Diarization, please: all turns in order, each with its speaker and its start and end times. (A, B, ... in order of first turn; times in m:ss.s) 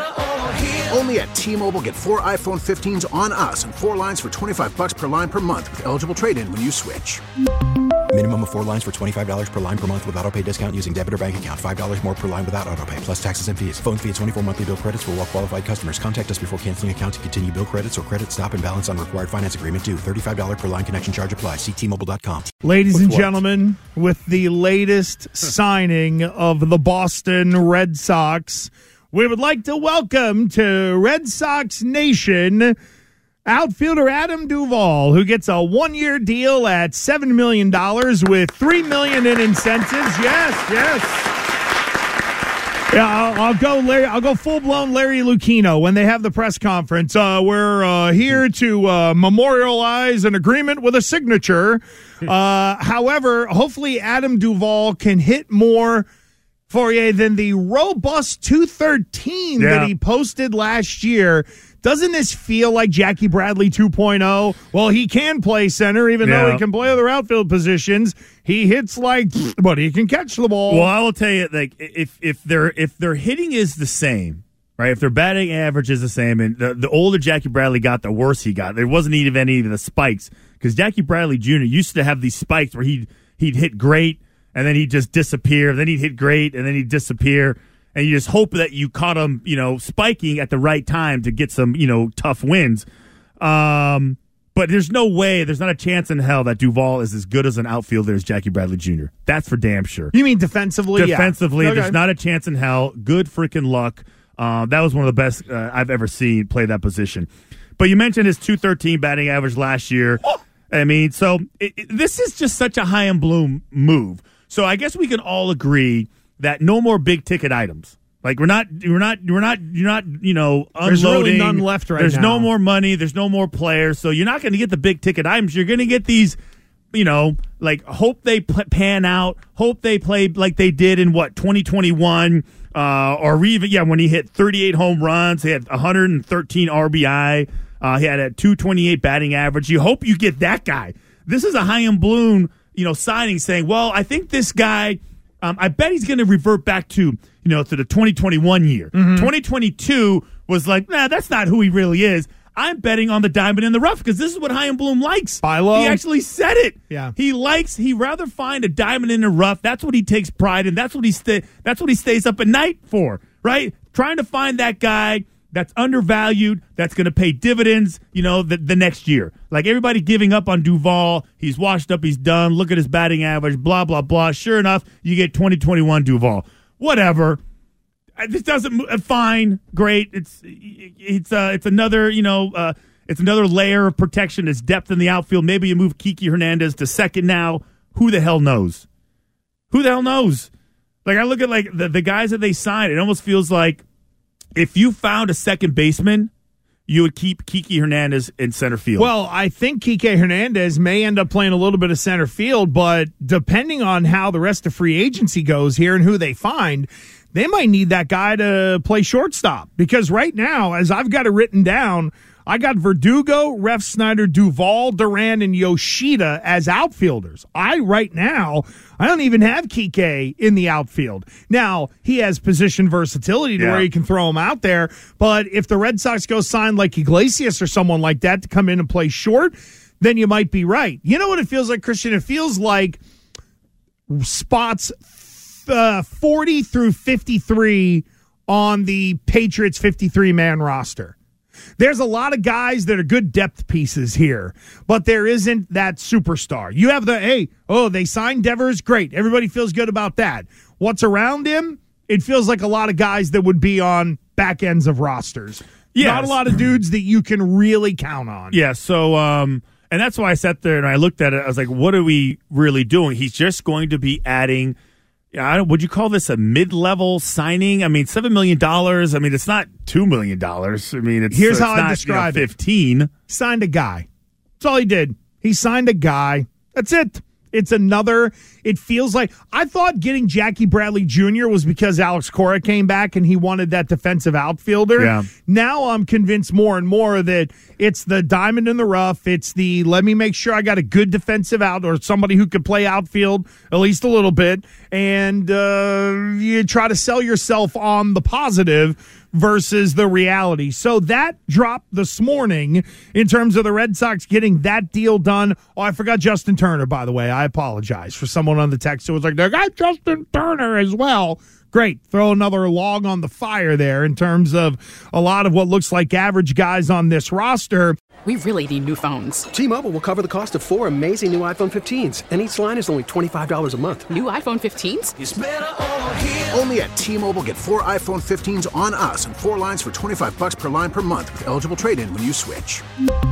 0:00.5-0:07.2 A
0:08.1-0:22.5 B
0:22.6-0:32.8 C
0:22.9-0:23.3 D
0:33.4-0:41.3 C
0:42.9-0:56.0 C
0:56.7-1:10.9 C
0:59.6-0:59.9 D
1:06.2-1:06.6 D
1:10.7-1:32.8 D
1:33.4-1:40.1 D
1:40.1-1:42.0 C
1:40.9-2:06.4 D
2:00.8-2:02.5 C
2:06.9-2:57.4 D
2:28.9-2:29.3 C
2:35.4-2:36.0 C
2:58.2-3:08.8 D
3:09.7-3:10.5 D
3:11.0-3:13.8 D
3:14.6-3:16.3 D
3:16.9-3:19.1 D
3:19.0-3:53.0 C
3:43.6-3:43.9 D
3:54.1-4:01.2 C
4:01.8-4:18.6 C
4:15.9-4:16.4 D
4:18.5-4:24.8 D
4:25.3-4:33.1 D
4:31.3-4:32.5 C
4:33.3-4:34.0 C
4:34.6-5:18.0 C
4:45.0-4:45.3 D
5:18.2-5:19.5 E
5:19.5-5:24.1 F
5:24.1-5:25.1 E
5:26.3-5:32.8 A